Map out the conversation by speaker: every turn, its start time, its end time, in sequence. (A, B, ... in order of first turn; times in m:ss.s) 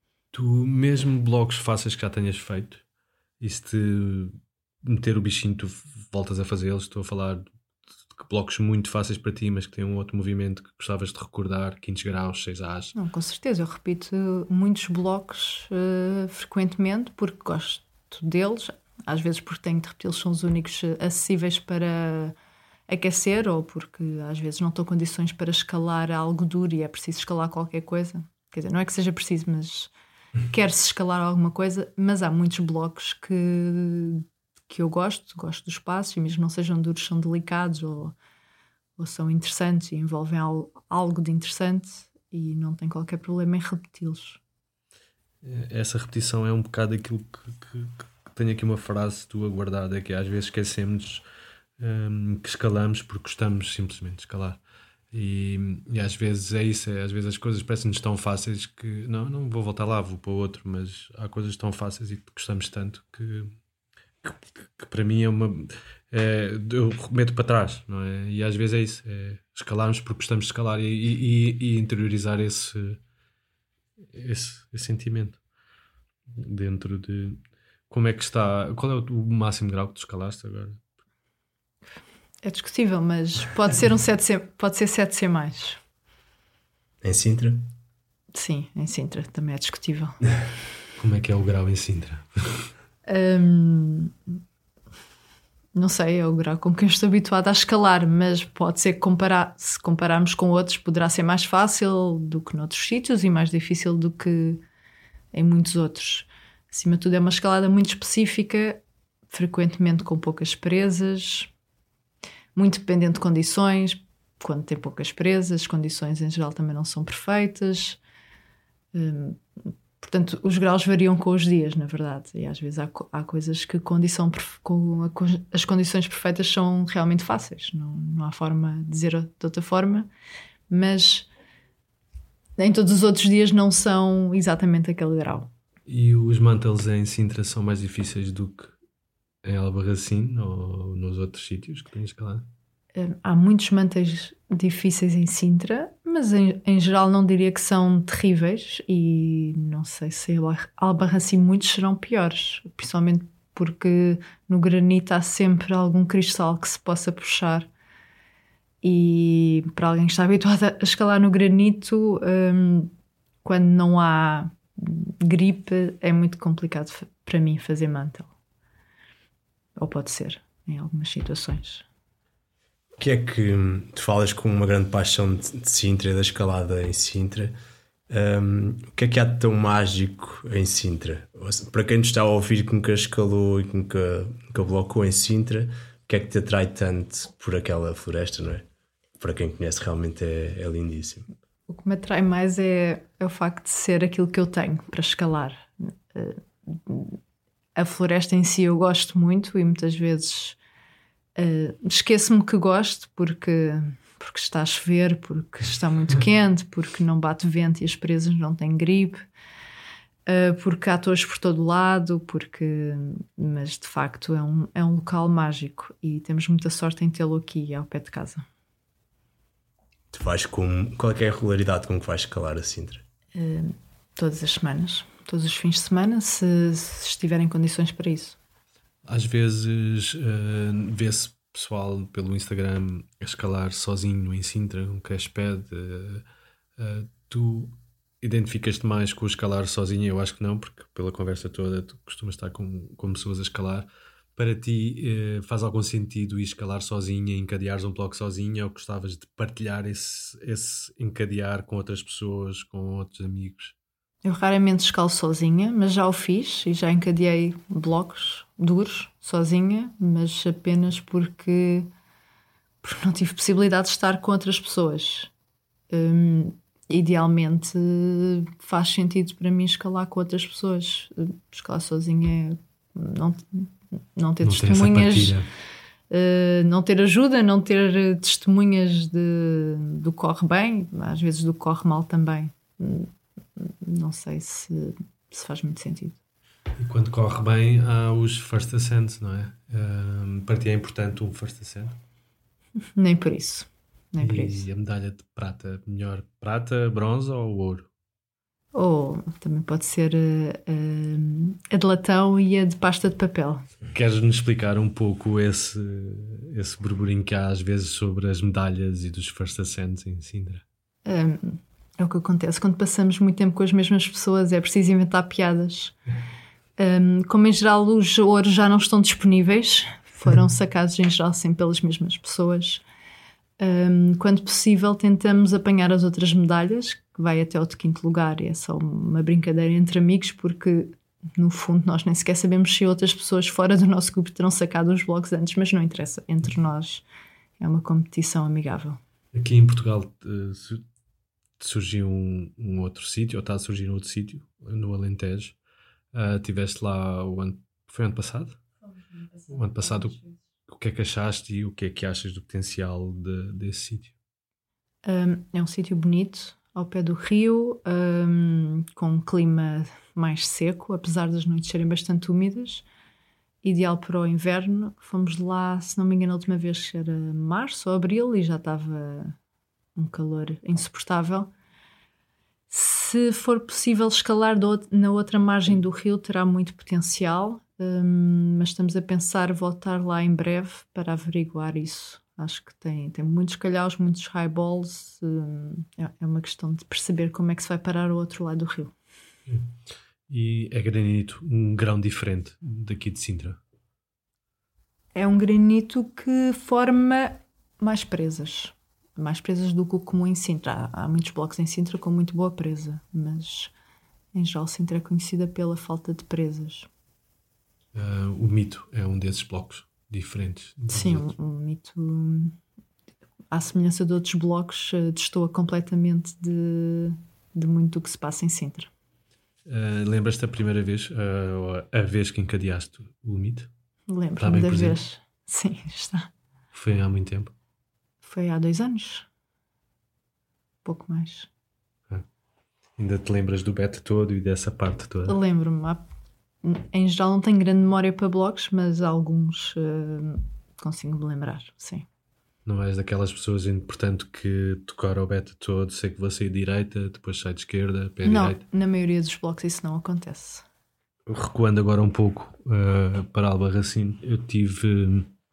0:00.3-0:02.8 A
0:03.4-0:07.4 A
0:08.1-0:12.9 A
0:12.9-0:22.3 B
0:22.9-0:29.9 B
0:30.5-0:38.2 B
0:39.0-0:44.4 B
0:45.4-0:51.2 A
0:51.8-0:54.6 A
0:55.1-1:03.5 A
1:04.2-1:13.0 A
1:14.1-1:15.4 A
1:16.3-1:20.8 A
1:22.4-1:25.8 B
1:27.0-1:27.7 C
1:28.3-1:30.2 B
1:31.0-1:32.7 A
1:33.1-1:34.2 B
1:35.7-1:44.6 B
1:45.3-1:51.5 B
1:52.5-1:58.0 B
1:58.9-2:10.1 B
2:10.7-2:11.3 B
2:12.6-2:15.5 B
2:15.9-2:18.7 A
2:19.4-2:22.5 A
2:22.9-2:37.7 B
2:38.8-2:48.3 B
2:49.8-2:51.8 B
2:53.0-2:57.5 C
2:58.1-3:08.6 C
3:09.2-3:11.3 C
3:11.7-3:17.2 B
3:17.8-3:20.6 B
3:21.4-3:29.2 B
3:30.2-3:38.4 B
3:40.1-3:43.0 C
3:43.3-3:48.4 B
3:49.0-3:56.2 A
3:56.8-4:13.7 A
4:14.2-4:21.9 B
4:22.8-4:25.3 B
4:25.9-4:35.4 B
4:34.4-4:35.5 A
4:36.1-4:46.2 B
4:46.8-4:52.0 A
4:53.0-4:54.7 B
4:54.2-4:57.9 A
4:58.7-5:03.7 B
5:03.9-5:10.6 A
5:11.0-5:16.0 B
5:16.8-5:22.8 B
5:23.6-5:37.0 B
5:37.6-5:39.0 B
5:39.3-5:40.8 A
5:41.6-5:45.6 A
5:46.1-5:48.6 A
5:49.2-5:50.3 B
5:49.5-5:54.1 A
5:55.0-6:02.8 B
6:03.6-6:09.4 B
6:10.0-6:11.5 B
6:12.7-6:28.9 B
6:29.5-6:29.8 A
6:30.3-6:33.6 A
6:35.1-6:43.7 B
6:44.3-6:46.9 B
6:47.9-6:51.3 A
6:50.9-6:52.6 B
6:53.5-6:58.9 B
6:59.6-7:03.7 A
7:04.1-7:06.3 B
7:04.4-7:05.0 A
7:06.7-7:07.5 A
7:08.2-7:09.3 B
7:10.8-7:11.5 B
7:13.0-7:15.4 A
7:15.2-7:16.0 B
7:16.6-7:22.0 B
7:22.6-7:28.6 A
7:28.2-7:30.6 B
7:31.3-7:35.3 A